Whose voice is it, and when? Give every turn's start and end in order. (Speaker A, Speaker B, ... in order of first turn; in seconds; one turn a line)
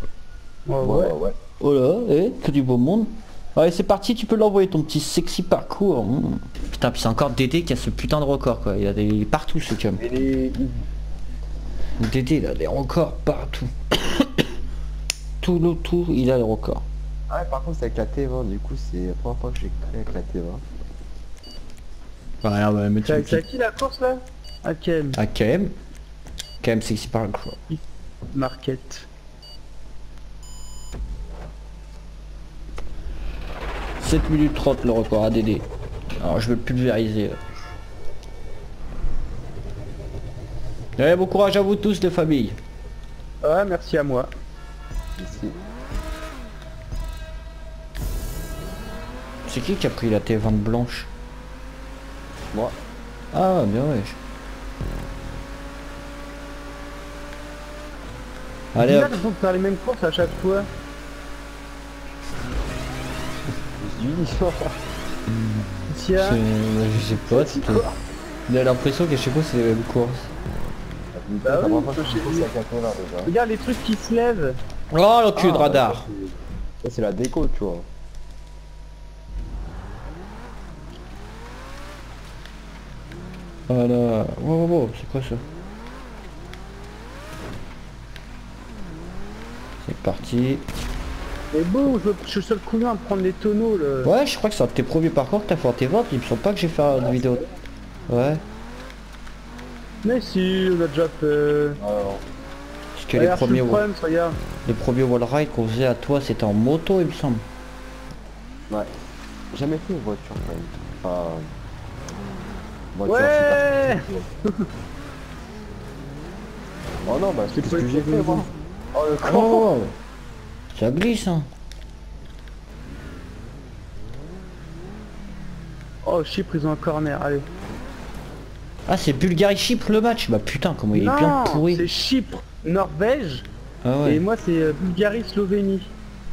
Speaker A: 0.7-1.1
Speaker B: 0.8-1.4
Speaker C: 1.6-10.0
Speaker B: 9.9-10.8
Speaker C: 12.0-14.5
Speaker C: 15.4-16.9
Speaker B: 17.3-20.6
Speaker C: 22.4-23.4
Speaker A: 23.0-25.2
Speaker C: 25.1-25.7
Speaker C: 26.6-27.6
Speaker A: 28.3-29.1
Speaker C: 34.0-35.7
Speaker C: 36.2-37.4
Speaker C: 41.0-42.6
Speaker A: 43.4-44.3
Speaker B: 45.2-45.6
Speaker C: 49.5-51.1
Speaker C: 53.3-54.2
Speaker C: 58.7-59.2
Speaker A: 58.8-60.7
Speaker B: 63.8-64.8
Speaker A: 65.9-66.4
Speaker C: 66.2-67.8
Speaker B: 67.3-67.7
Speaker C: 68.5-70.3
Speaker B: 71.1-73.3
Speaker A: 71.4-72.5
Speaker A: 73.2-74.6
Speaker C: 74.9-76.1
Speaker B: 75.3-77.9
Speaker C: 83.7-85.4
Speaker C: 89.8-90.7
Speaker A: 91.5-94.1
Speaker C: 94.0-97.5
Speaker B: 97.0-97.3
Speaker C: 98.1-98.4
Speaker A: 100.0-101.8
Speaker B: 101.8-102.2
Speaker C: 103.0-103.8
Speaker A: 103.1-104.4
Speaker C: 104.7-107.4
Speaker B: 109.5-111.5
Speaker B: 112.9-114.3
Speaker A: 113.0-114.7
Speaker B: 117.0-118.5
Speaker A: 117.5-118.5
Speaker C: 119.2-119.9
Speaker B: 119.3-119.6
Speaker C: 120.7-121.5
Speaker A: 126.0-127.5
Speaker C: 128.9-131.9
Speaker A: 130.9-133.5
Speaker C: 133.8-134.2
Speaker A: 134.0-135.9